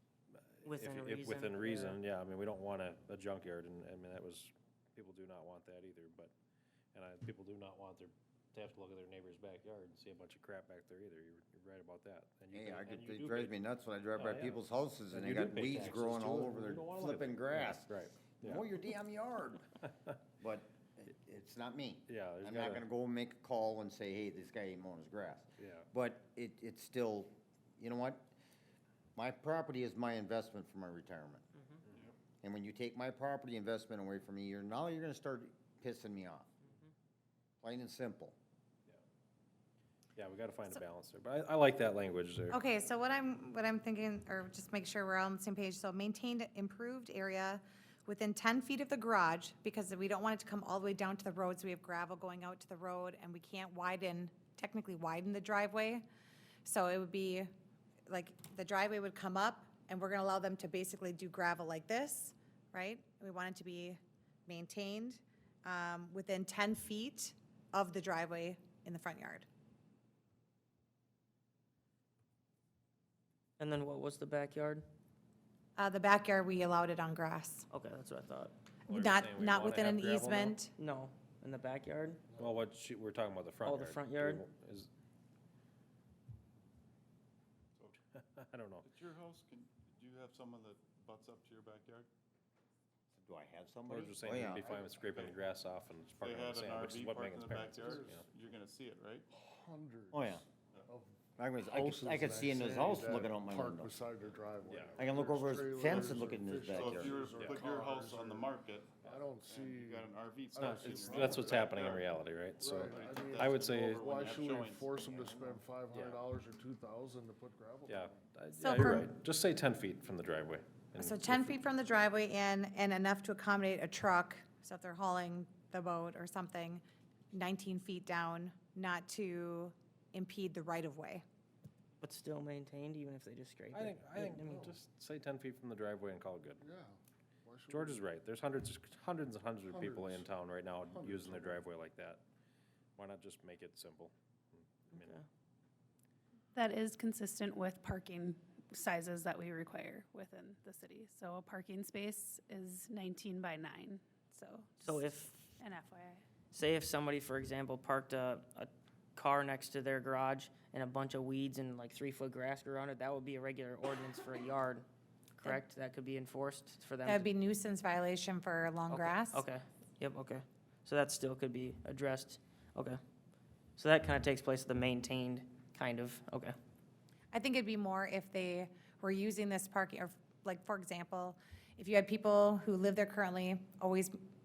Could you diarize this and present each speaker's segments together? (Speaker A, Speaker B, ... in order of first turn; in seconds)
Speaker A: 0.3-6.3, 6.9-13.6, 14.2-18.7, 22.1-22.8, 25.6-25.9, 40.2-42.6, 78.9-80.6, 82.4-84.9, 88.4-88.9, 93.9-98.2, 104.7-105.0, 110.6-114.0, 115.9-116.2, 117.9-121.6, 133.7-136.6, 137.7-142.2, 143.0-145.1
Speaker B: 0.7-2.0, 73.6-74.8, 77.7-78.5, 80.8-82.2, 83.6-84.5, 132.0-134.8, 144.9-145.3, 154.8-155.4, 156.5-164.9, 165.4-167.3, 168.9-173.0, 173.8-176.6
Speaker C: 12.5-19.7, 20.4-28.3, 29.2-31.5, 32.4-36.5, 37.6-38.4, 93.2-94.7, 100.1-100.4, 101.4-104.0, 105.0-107.1
Speaker D: 42.5-56.0, 56.6-57.5, 58.1-69.5, 75.8-77.7, 78.9-80.7, 118.6-119.1, 121.0-126.8, 127.3-131.2, 154.3-154.7, 167.1-169.4, 177.3-184.2
Speaker E: 88.8-92.1, 94.7-95.4, 96.2-99.3, 106.7-112.1, 112.7-115.6
Speaker F: 97.9-98.2, 99.3-111.8, 112.6-118.2, 136.6-138.0, 139.7-141.6
Speaker G: 146.6-154.0, 155.6-156.2